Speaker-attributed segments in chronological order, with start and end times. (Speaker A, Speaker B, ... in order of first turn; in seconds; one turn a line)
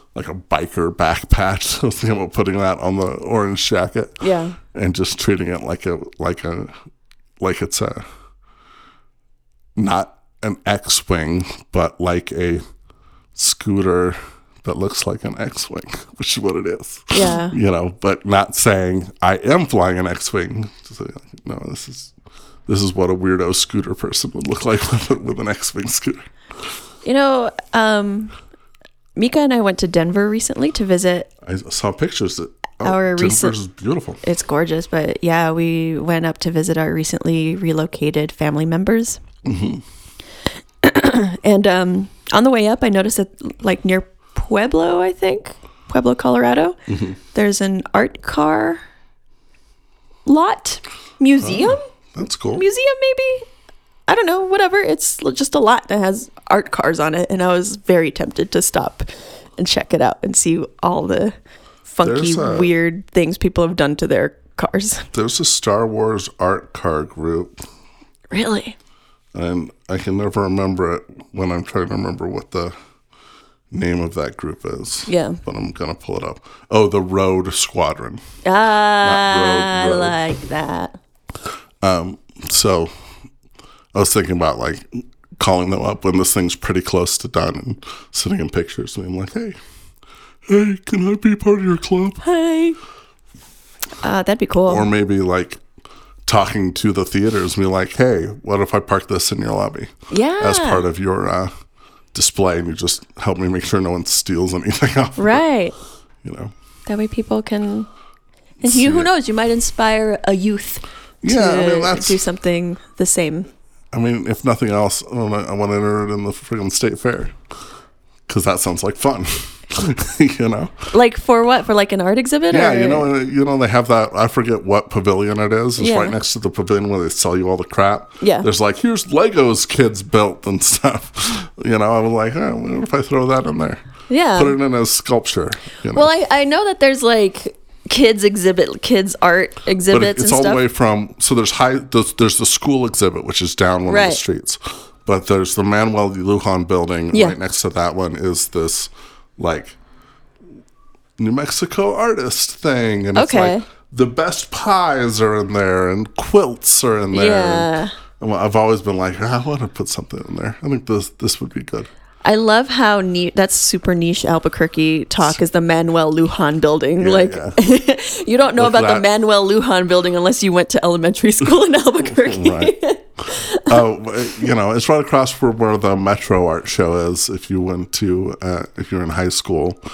Speaker A: 0.1-4.2
Speaker B: 4.2-4.6
Speaker A: 4.7-6.7
Speaker A: 7.4-8.0
Speaker A: 9.8-12.6
Speaker A: 13.3-22.1
Speaker B: 17.1-17.6
Speaker A: 22.7-26.2
Speaker B: 27.0-28.3
Speaker B: 29.2-31.3
Speaker A: 31.4-34.2
Speaker B: 32.8-33.6
Speaker B: 34.2-39.2
Speaker A: 39.4-39.8
Speaker B: 40.8-46.8
Speaker A: 46.9-47.2
Speaker B: 47.3-48.8
Speaker B: 50.3-51.9
Speaker A: 51.4-52.6
Speaker B: 52.5-53.5
Speaker B: 54.1-61.3
Speaker B: 61.9-65.1
Speaker A: 62.0-62.7
Speaker A: 65.1-67.6
Speaker B: 68.3-68.8
Speaker A: 69.3-72.8
Speaker A: 73.7-78.2
Speaker B: 75.1-75.4
Speaker B: 78.4-81.0
Speaker A: 79.0-80.2
Speaker A: 81.8-82.9
Speaker A: 83.9-89.6
Speaker A: 90.5-92.2
Speaker B: 92.2-92.8
Speaker B: 94.0-94.9
Speaker A: 94.7-95.6
Speaker A: 96.3-101.5
Speaker B: 100.1-100.8
Speaker A: 102.1-105.4
Speaker B: 105.2-105.8
Speaker A: 106.2-106.5
Speaker B: 106.9-107.9
Speaker A: 108.6-109.1
Speaker B: 108.6-113.5
Speaker A: 111.2-112.2
Speaker A: 113.9-117.3
Speaker A: 118.3-120.9
Speaker B: 120.9-123.1
Speaker A: 122.5-133.8
Speaker B: 125.8-126.2
Speaker B: 128.2-128.5
Speaker B: 134.1-134.6
Speaker A: 134.4-136.1
Speaker B: 135.9-140.6
Speaker A: 139.9-149.8
Speaker B: 143.9-144.2
Speaker B: 147.1-147.4
Speaker A: 151.2-161.9
Speaker B: 153.2-153.7
Speaker B: 157.1-157.9
Speaker B: 162.2-173.8
Speaker A: 167.0-167.6
Speaker A: 168.6-169.1
Speaker A: 172.0-172.7
Speaker A: 173.6-179.8